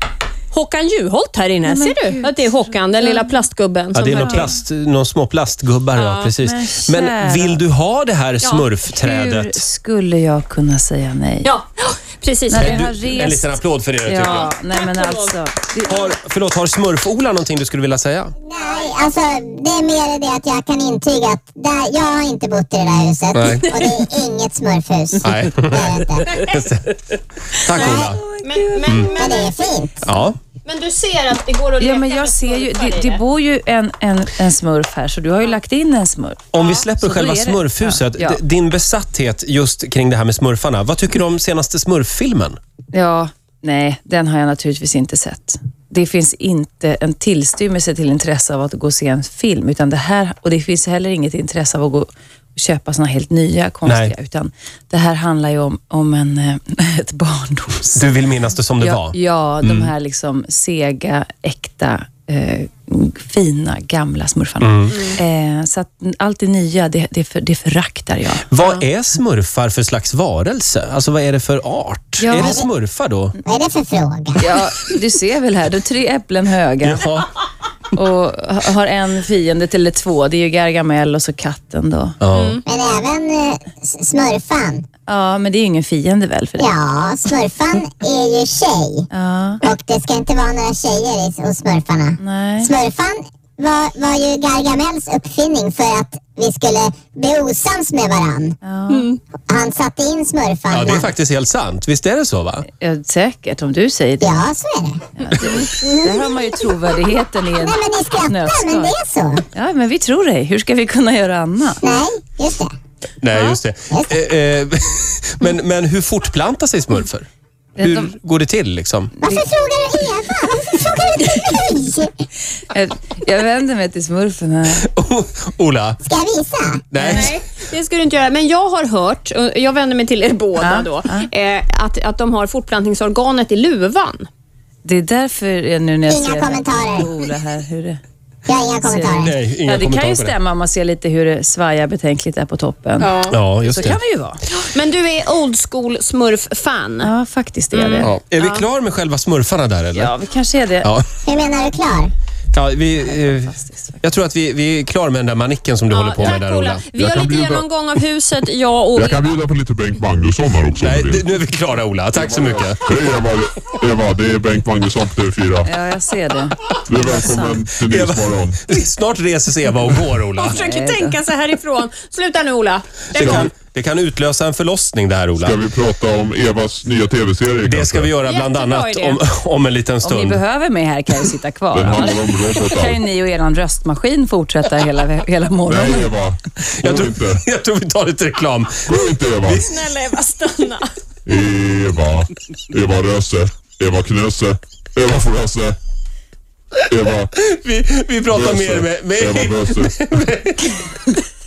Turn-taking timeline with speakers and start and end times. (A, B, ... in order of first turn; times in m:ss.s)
0:00.5-0:04.5 A
0:01.6-0:03.4 B
0:03.9-0:09.6 C
0:04.1-0:04.6 B
0:06.0-0:06.3 A
0:06.4-0:07.6 B
0:08.4-0:08.7 A
0:08.9-0:11.5 B
0:11.4-0:12.8 A
0:12.5-0:16.1 B
0:12.5-0:14.5 C
0:14.2-0:15.4 A
0:15.9-0:18.4 C
0:18.4-0:26.4 D
0:23.3-0:24.0 C
0:25.2-0:27.0 C
0:27.5-0:28.2 C
0:27.7-0:29.8 A
0:27.8-0:28.1 D
0:27.9-0:29.0 B
0:28.8-0:29.1 C
0:29.1-0:30.0 D
0:30.0-0:30.4 C
0:30.6-0:33.2 A
0:31.8-0:38.4 B
0:36.5-0:42.6 C
0:42.9-0:58.1 B
0:53.9-0:54.1 C
0:58.0-0:59.9 C
0:58.8-1:08.8 B
1:04.6-1:05.1 C
1:08.5-1:13.4 C
1:12.2-1:12.6 B
1:12.4-1:12.6 D
1:13.4-1:14.4 D
1:14.4-1:17.1 B
1:16.8-1:17.3 C
1:17.9-1:22.2 B
1:22.2-1:22.6 C
1:22.3-1:22.6 A
1:22.6-1:24.9 D
1:25.1-1:26.7 B
1:26.6-1:29.1 D
1:29.1-1:29.6 B
1:29.6-1:38.6 D
1:32.2-1:32.7 B
1:38.6-1:39.1 B
1:38.9-1:39.2 A
1:39.5-1:41.1 D
1:40.7-1:42.7 C
1:42.7-1:44.5 B
1:44.2-1:46.5 D
1:45.2-1:49.0 B
1:47.5-1:49.4 D
1:49.6-1:51.8 B
1:51.8-1:52.7 D
1:53.2-1:57.3 C
1:53.9-1:54.2 D
1:57.8-1:58.1 B
1:57.8-1:59.1 C
1:59.2-2:02.1 D
2:02.7-2:04.9 B
2:04.8-2:06.0 C
2:06.0-2:06.9 D
2:06.9-2:07.4 C
2:07.0-2:07.3 B
2:07.1-2:14.3 A
2:10.6-2:11.3 B
2:14.8-2:18.0 B
2:16.1-2:17.1 D
2:18.5-2:19.4 D
2:18.8-2:24.4 B
2:19.2-2:20.4 C
2:23.0-2:23.9 A
2:23.3-2:24.0 C
2:24.5-2:27.1 A
2:27.0-2:28.6 B
2:27.7-2:28.1 A
2:28.0-2:30.1 C
2:30.0-2:30.9 B
2:31.2-2:32.1 D
2:32.5-2:36.8 C
2:33.0-2:34.0 B
2:35.9-2:39.3 A
2:36.9-2:37.7 E
2:39.0-2:41.3 E
2:40.8-2:43.0 C
2:42.1-2:45.7 E
2:45.6-2:47.6 B
2:46.9-2:48.7 E
2:47.8-2:50.6 C
2:50.4-2:53.5 A
2:50.5-2:51.2 B
2:53.1-2:55.6 C
2:53.1-2:53.5 E
2:55.4-2:58.1 E
2:57.6-3:00.4 C
2:58.2-2:59.2 A
3:00.0-3:06.1 B
3:01.7-3:03.0 E
3:05.7-3:07.4 E
3:06.8-3:09.6 C
3:08.9-3:09.7 E
3:09.5-3:10.9 A
3:11.3-3:15.8 E
3:16.9-3:17.3 E
3:17.4-3:21.1 C
3:18.3-3:20.0 E